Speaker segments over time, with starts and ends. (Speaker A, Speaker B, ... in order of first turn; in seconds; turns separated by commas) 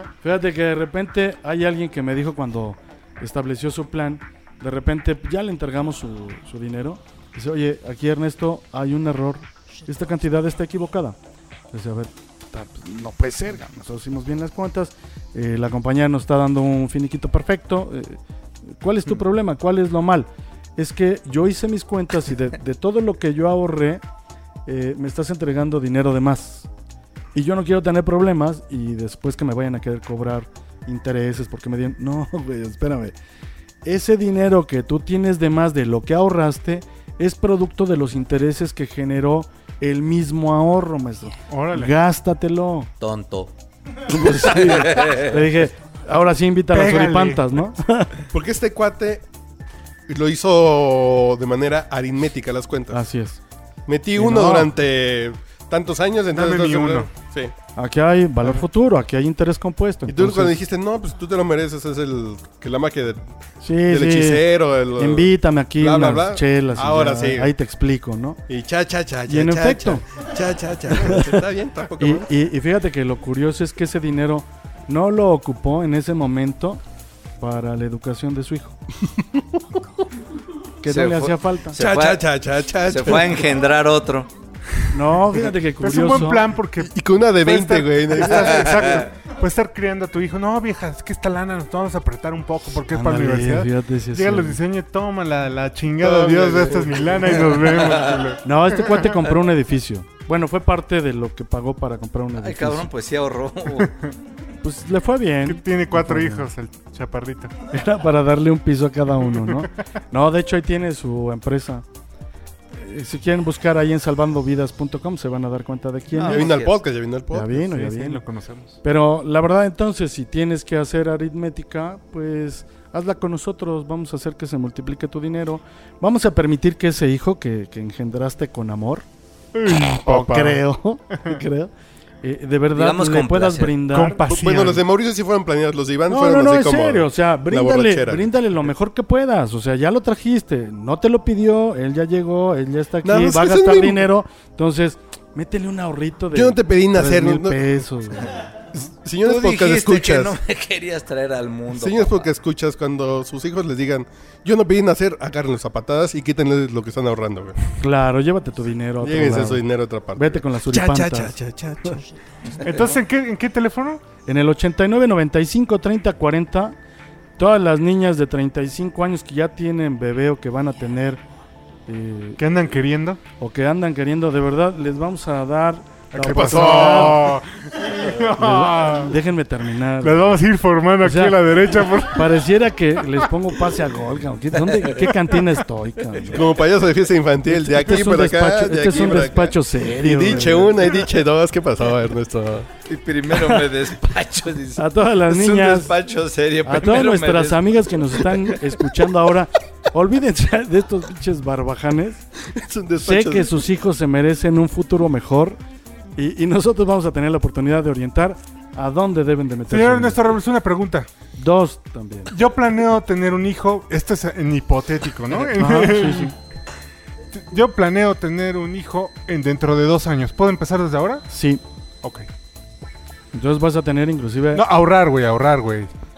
Speaker A: 0.2-11.2, Speaker A: 11.7-24.0, Speaker A: 24.6-26.7, Speaker A: 27.3-33.1, Speaker A: 33.8-42.9, Speaker B: 41.5-41.9, Speaker C: 43.0-43.5, Speaker A: 44.1-48.2, Speaker C: 44.6-45.3, Speaker B: 46.7-47.5, Speaker D: 48.3-49.2, Speaker D: 50.1-53.0, Speaker A: 52.9-53.4, Speaker D: 53.9-57.5, Speaker A: 54.1-54.7, Speaker B: 56.3-57.1, Speaker A: 57.8-60.6, Speaker D: 60.1-63.2, Speaker A: 63.6-68.4, Speaker D: 63.9-67.5, Speaker D: 68.5-72.3, Speaker A: 69.3-70.0, Speaker A: 71.0-71.4, Speaker A: 72.0-76.8, Speaker A: 77.4-78.8, Speaker D: 79.2-79.8, Speaker A: 80.8-81.8, Speaker C: 80.9-82.3, Speaker D: 81.8-83.6, Speaker C: 82.8-84.3, Speaker A: 84.9-86.5, Speaker B: 85.8-98.4, Speaker D: 86.8-89.0, Speaker A: 92.9-94.6, Speaker D: 96.0-97.4, Speaker C: 97.8-98.1, Speaker A: 98.4-102.9, Speaker C: 102.4-103.9, Speaker A: 104.6-106.5, Speaker B: 105.5-107.5, Speaker A: 107.7-111.8, Speaker B: 109.3-109.6, Speaker A: 112.7-116.5, Speaker C: 116.1-116.8, Speaker D: 116.2-117.6, Speaker A: 117.3-118.2, Speaker B: 117.6-118.8, Speaker A: 118.8-129.1, Speaker B: 129.5-130.6, Speaker A: 130.0-131.7, Speaker A: 132.2-134.2, Speaker C: 132.7-133.8, Speaker B: 133.9-134.8, Speaker D: 134.2-138.3, Speaker A: 136.1-148.5, Speaker D: 143.0-144.1, Speaker D: 146.3-147.8, Speaker D: 148.7-150.4, Speaker C: 149.2-152.3, Speaker D: 151.7-157.6, Speaker A: 157.8-159.6, Speaker D: 159.0-162.0, Speaker A: 160.1-161.4, Speaker B: 162.6-164.0, Speaker A: 164.3-166.8, Speaker A: 167.4-171.2, Speaker A: 171.9-172.4, Speaker B: 172.4-173.2, Speaker A: 173.4-177.2, Speaker D: 176.2-177.4, Speaker B: 176.2-179.1, Speaker A: 178.3-180.4, Speaker B: 180.0-182.4, Speaker A: 181.0-186.4, Speaker D: 186.3-192.7, Speaker A: 187.4-190.9, Speaker C: 192.8-198.6, Speaker A: 194.8-195.9, Speaker A: 196.6-202.2, Speaker D: 202.4-203.6, Speaker A: 203.0-205.6, Speaker A: 206.2-210.2, Speaker B: 209.7-211.1, Speaker A: 211.4-212.3, Speaker B: 212.3-216.3, Speaker A: 215.4-216.3, Speaker B: 217.3-221.3, Speaker A: 221.3-221.6, Speaker A: 223.3-224.7, Speaker B: 224.5-225.9